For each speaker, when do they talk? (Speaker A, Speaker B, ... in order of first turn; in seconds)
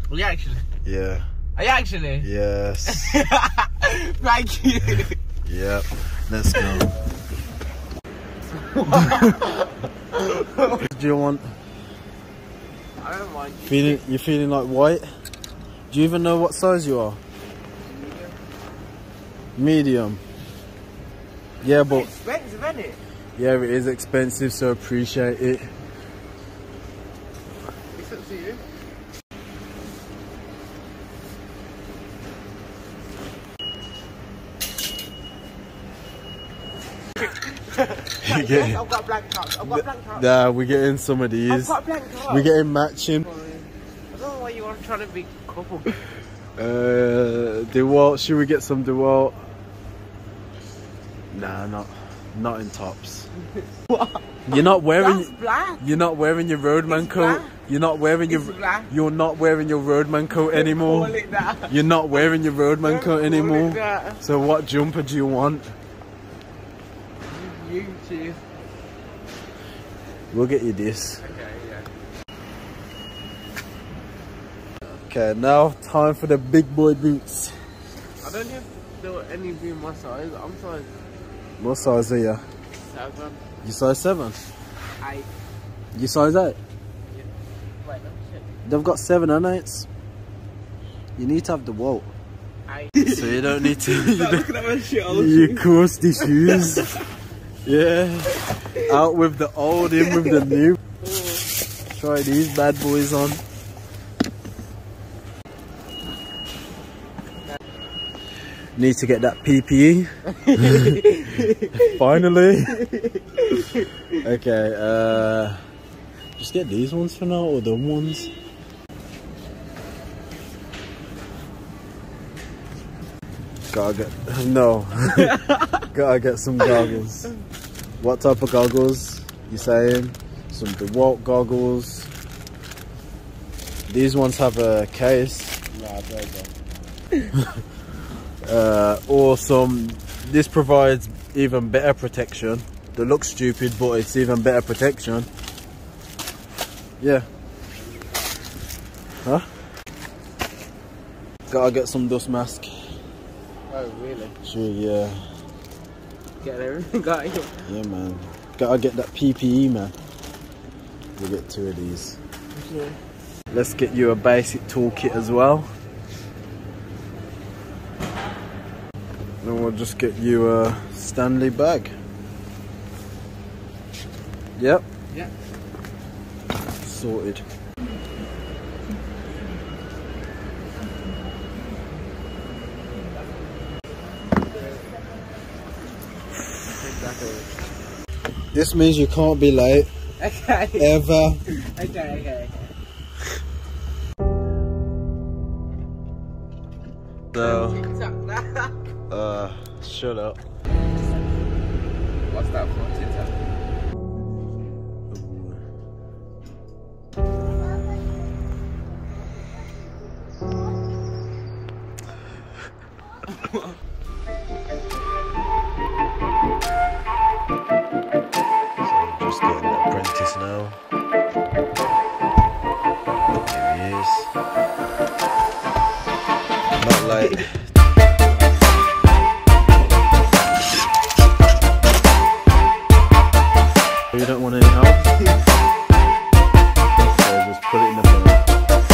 Speaker A: 0.1-0.7, 1.6-2.3, 2.9-5.2, 8.7-9.6, 10.2-10.8, 13.0-14.0, 17.8-18.3, 21.8-23.0, 27.9-28.6, 37.2-40.2, 41.5-42.5, 43.2-46.0, 53.9-55.8, 56.9-57.6, 58.3-58.9, 60.5-62.2, 62.8-64.2, 67.3-68.4, 71.2-71.9, 78.2-80.9, 82.8-83.4, 85.0-85.3, 87.8-88.5, 92.7-97.0, 98.3-98.9, 99.8-101.4, 110.3-112.0, 112.7-113.9, 125.2-125.8, 135.7-136.5, 153.7-154.4, 156.4-157.7, 162.6-162.9, 186.7-187.5, 190.2-190.9, 191.5-192.7, 197.4-198.7, 202.3-203.3
Speaker B: 0.8-1.2, 2.2-3.2, 5.4-6.9, 10.7-11.5, 13.7-15.1, 15.9-17.2, 19.6-20.2, 21.6-22.1, 23.4-25.7, 38.2-38.8, 39.6-43.3, 46.6-49.4, 51.3-53.3, 54.5-65.7, 70.3-71.2, 75.1-77.5, 81.6-82.4, 83.6-84.4, 85.9-86.6, 88.6-89.9, 91.2-92.1, 93.0-94.5, 95.1-96.9, 97.6-100.8, 101.9-103.4, 108.8-111.0, 111.7-112.8, 114.1-115.6, 116.4-118.3, 123.7-125.4, 125.9-127.3, 128.0-132.1, 133.9-135.7, 138.4-145.3, 147.0-147.3, 151.5-152.7, 154.4-155.2, 157.6-159.9, 161.2-162.2, 163.5-165.7, 169.4-171.9, 174.6-174.8, 176.8-177.4, 188.5-189.9, 190.8-191.4, 197.3-197.8, 199.1-200.4, 205.1-205.6, 218.8-220.8, 223.4-224.3, 226.8-227.7, 234.1-235.2, 237.0-238.4